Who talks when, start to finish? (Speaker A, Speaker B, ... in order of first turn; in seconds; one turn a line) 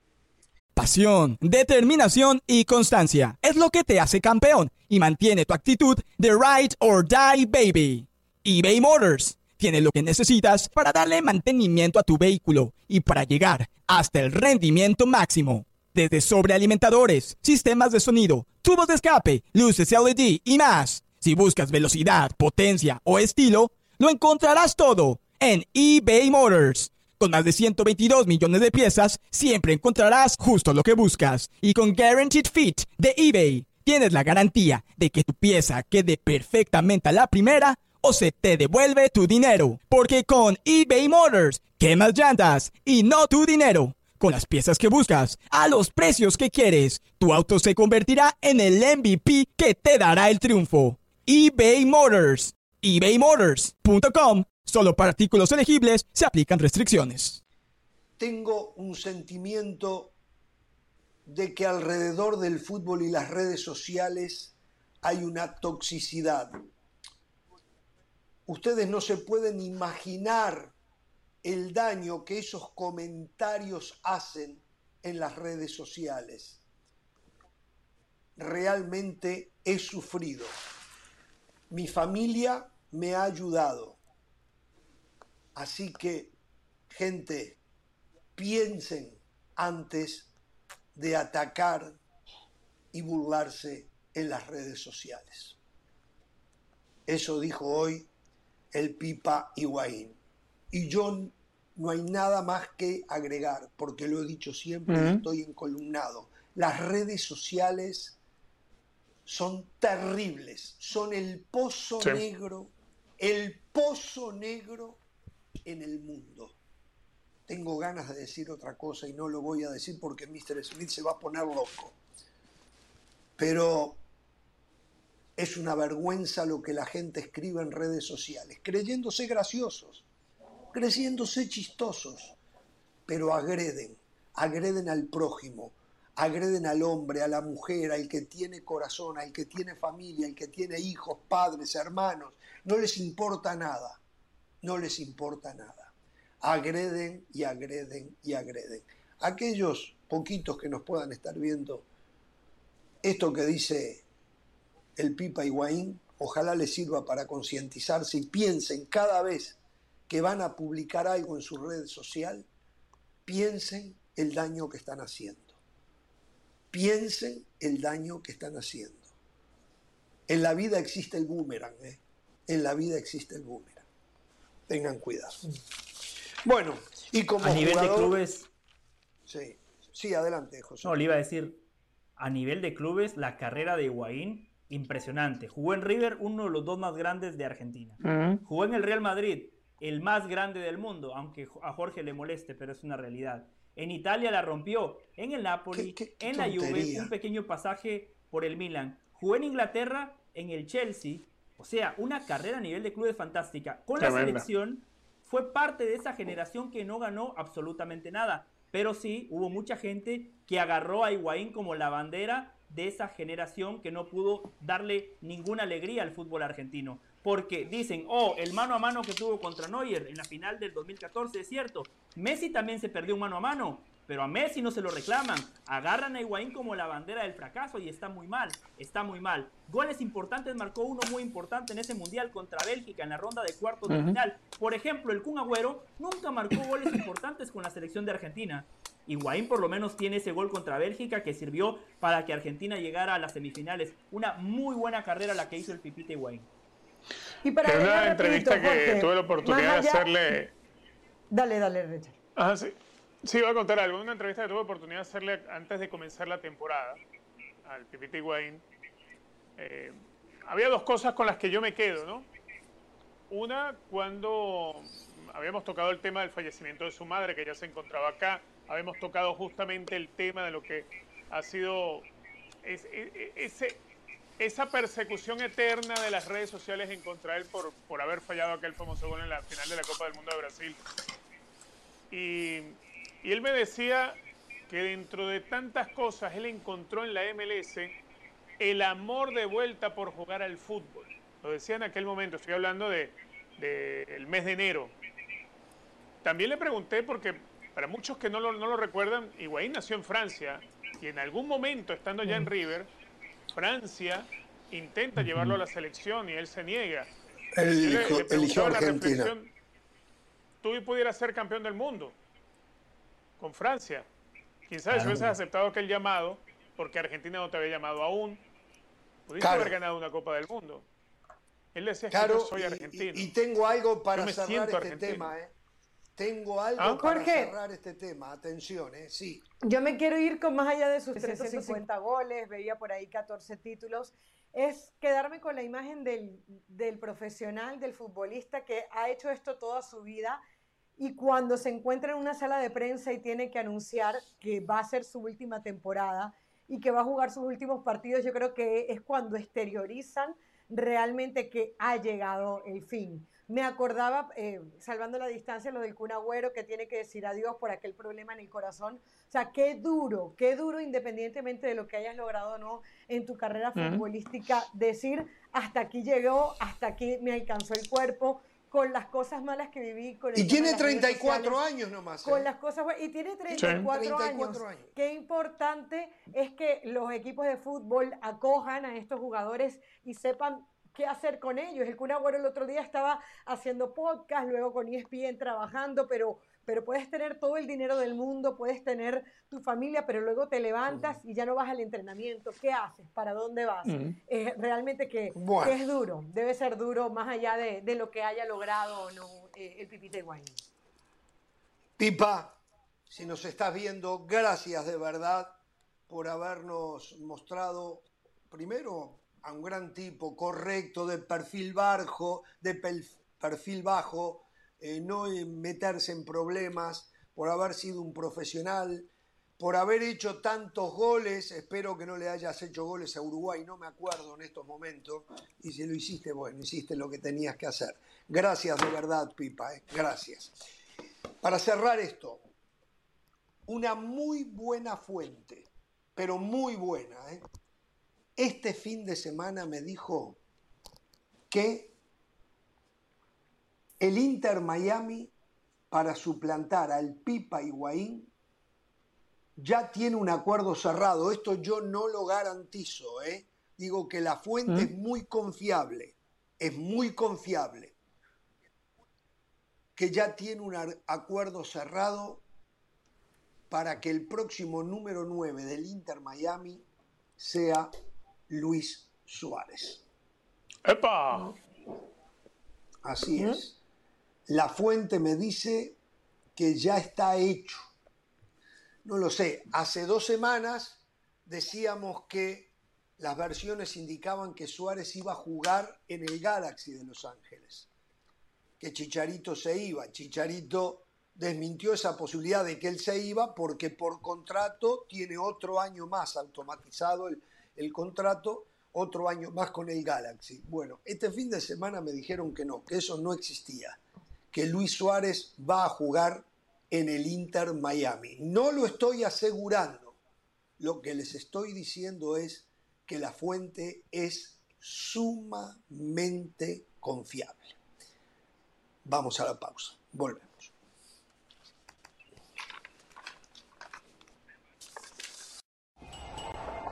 Speaker A: 0.7-57.4
Speaker B: 58.2-60.1
Speaker B: 61.2-66.6
Speaker B: 68.5-70.7
Speaker B: 71.4-76.6
Speaker B: 78.3-80.5
Speaker B: 81.7-84.0
Speaker B: 85.5-86.3
Speaker B: 86.9-87.6
Speaker B: 88.3-90.3
Speaker B: 90.9-92.0
Speaker B: 92.9-95.6
Speaker B: 97.1-98.1
Speaker B: 98.7-100.2
Speaker B: 100.7-108.2
Speaker C: 104.9-105.2
Speaker B: 109.2-115.0
Speaker B: 115.6-116.6
Speaker B: 117.5-122.0
Speaker B: 123.4-124.0
Speaker B: 125.4-130.1
Speaker B: 130.7-132.3
Speaker B: 133.1-144.0
Speaker B: 144.6-151.8
Speaker B: 153.0-154.0
Speaker B: 154.9-162.5
Speaker B: 163.2-165.6
Speaker B: 166.7-169.1
Speaker B: 170.3-173.8
Speaker B: 174.7-175.4
Speaker B: 176.4-178.2
Speaker D: 177.4-178.5
Speaker B: 179.3-181.0
Speaker D: 180.8-181.6
Speaker D: 182.2-246.5
Speaker C: 188.0-188.4
Speaker B: 195.7-197.1
Speaker C: 204.0-204.5
Speaker C: 233.9-234.2
Speaker E: 247.4-250.2
Speaker C: 247.6-250.5
Speaker E: 251.3-252.2
Speaker C: 252.3-257.0
Speaker C: 257.6-258.6
Speaker C: 259.6-262.3
Speaker C: 263.3-272.1
Speaker C: 272.6-273.8
Speaker C: 274.4-280.8
Speaker C: 282.1-284.2
Speaker C: 284.7-287.9
Speaker C: 288.6-294.9
Speaker C: 296.2-302.9
Speaker C: 303.5-307.1
Speaker B: 307.5-309.3
Speaker C: 307.8-309.5
Speaker C: 310.6-312.1
Speaker C: 313.4-314.1
Speaker C: 314.7-318.4
Speaker D: 314.9-315.2
Speaker C: 319.3-320.9
Speaker B: 319.4-319.8
Speaker C: 321.7-323.3
Speaker B: 322.1-325.5
Speaker C: 324.1-325.3
Speaker B: 326.1-329.4
Speaker C: 326.8-327.0
Speaker E: 327.0-327.5
Speaker E: 329.6-340.4
Speaker E: 341.0-371.6
Speaker C: 363.8-364.0
Speaker B: 370.3-372.5
Speaker E: 372.2-400.6
Speaker B: 373.5-374.9
Speaker C: 373.6-373.9
Speaker B: 390.9-391.2
Speaker C: 393.9-394.1
Speaker B: 395.3-395.8
Speaker B: 402.0-402.6
Speaker B: 403.1-405.6
Speaker B: 406.1-430.5
Speaker B: 431.4-432.4
Speaker B: 433.7-437.4
Speaker B: 438.4-440.4
Speaker B: 441.5-441.9
Speaker B: 444.0-445.3
Speaker B: 445.9-448.3
Speaker B: 449.6-457.9
Speaker B: 459.9-462.4
Speaker B: 463.7-466.8
Speaker B: 467.4-467.9
Speaker B: 468.5-470.0
Speaker C: 470.8-471.6
Speaker B: 473.0-473.8
Speaker B: 474.5-476.0
Speaker B: 476.6-477.9
Speaker B: 479.0-487.9
Speaker B: 488.8-504.0
Speaker B: 504.5-510.1
Speaker B: 510.8-517.8
Speaker B: 519.0-520.7